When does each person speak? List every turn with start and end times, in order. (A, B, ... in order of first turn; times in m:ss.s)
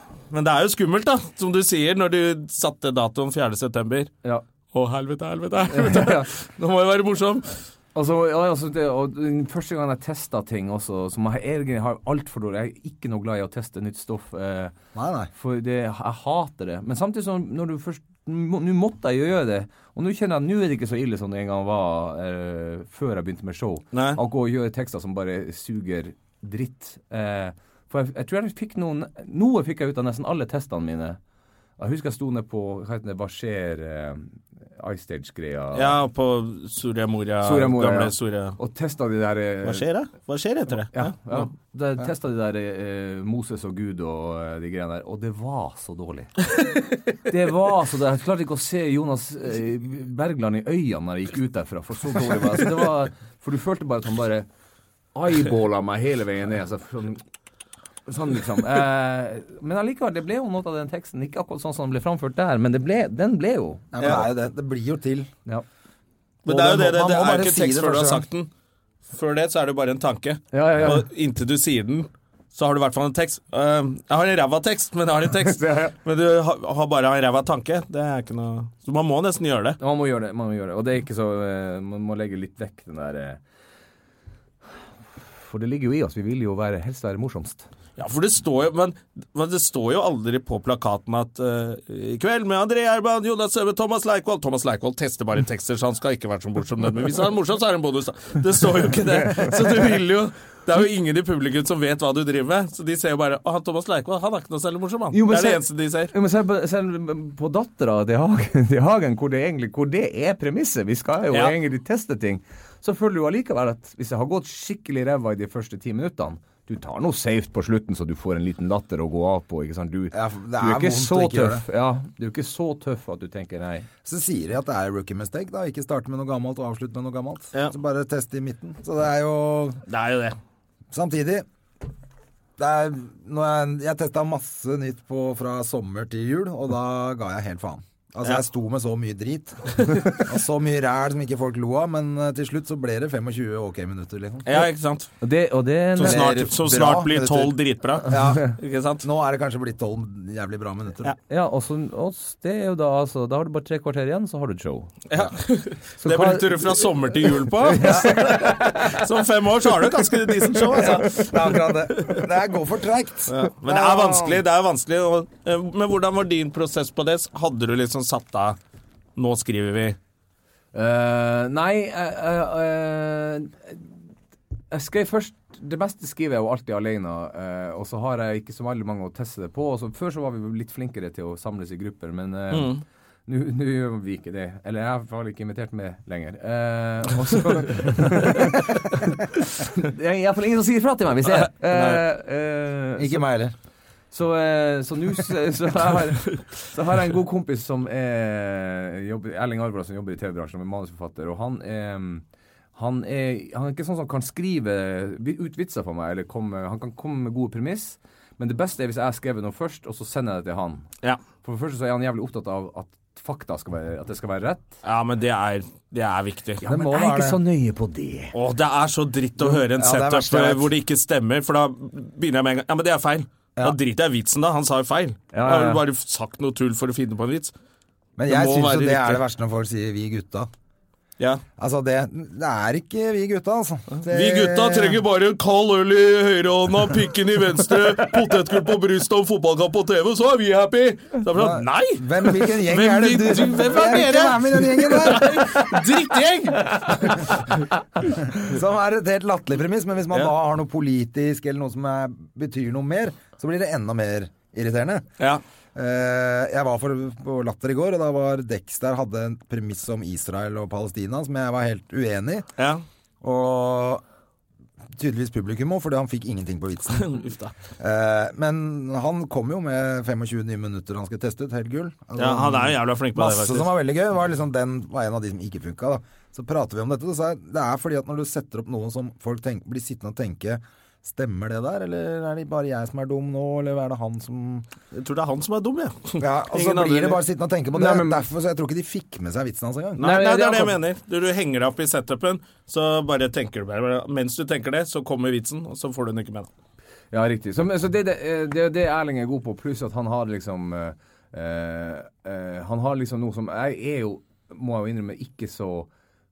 0:00.3-0:04.1 A
0:04.7-0:07.6 A
0:05.7-0:06.3 B
0:08.0-0:14.8 B
0:15.0-0:15.3 C
0:15.3-0:31.2 B
0:23.9-0:24.2 A
0:31.8-0:36.0 B
0:35.8-0:38.6 A
0:37.4-0:39.9 B
0:39.6-0:41.5 A
0:40.9-0:46.5 B
0:47.2-0:54.5 B
0:55.2-0:57.2 B
0:58.1-1:03.9 B
1:03.9-1:05.3 C
1:04.0-1:04.2 A
1:06.4-1:08.5 A
1:06.5-1:08.2 C
1:09.1-1:19.8 A
1:10.5-1:11.1 B
1:15.4-1:15.9 B
1:19.8-1:23.4 B
1:25.3-1:27.7 B
1:28.0-1:46.1 A
1:45.1-2:03.9 B
2:00.1-2:01.6 C
2:04.0-2:09.8 C
2:09.9-2:10.4 A
2:10.9-2:11.5 C
2:12.6-2:24.6 C
2:19.9-2:20.1 A
2:24.5-2:25.1 A
2:25.2-2:26.3 B
2:26.0-2:29.0 A
2:26.0-2:31.2 C
2:31.3-2:35.1 B
2:35.1-2:42.2 A
2:36.0-2:36.8 B
2:37.8-2:38.8 B
2:37.8-2:38.1 C
2:40.7-2:44.4 C
2:43.3-2:48.6 A
2:49.2-2:50.0 A
2:50.7-2:54.0 B
2:54.7-3:13.3 B
3:02.5-3:02.8 A
3:11.7-3:12.0 A
3:13.0-3:13.6 C
3:14.1-3:22.2 B
3:22.8-3:30.9 B
3:31.4-3:34.7 B
3:34.8-3:36.6 A
3:36.6-3:38.3 B
3:36.6-3:37.4 C
3:38.3-3:47.5 A
3:39.4-3:40.7 C
3:45.3-3:45.8 B
3:48.2-3:50.5 C
3:48.3-3:49.2 A
3:51.6-3:55.0 C
3:54.0-4:07.3 A
4:01.3-4:05.6 C
4:08.4-4:15.1 C
4:15.8-4:22.5 C
4:22.6-4:22.8 A
4:23.2-4:24.0 C
4:24.9-4:27.2 C
4:27.0-4:27.5 A
4:27.8-4:44.7 C
4:32.2-4:33.7 A
4:44.9-4:47.2 A
4:46.2-4:50.0 C
4:47.7-4:48.2 B
4:50.0-4:56.5 A
4:50.0-4:50.8 B
4:57.1-5:05.9 B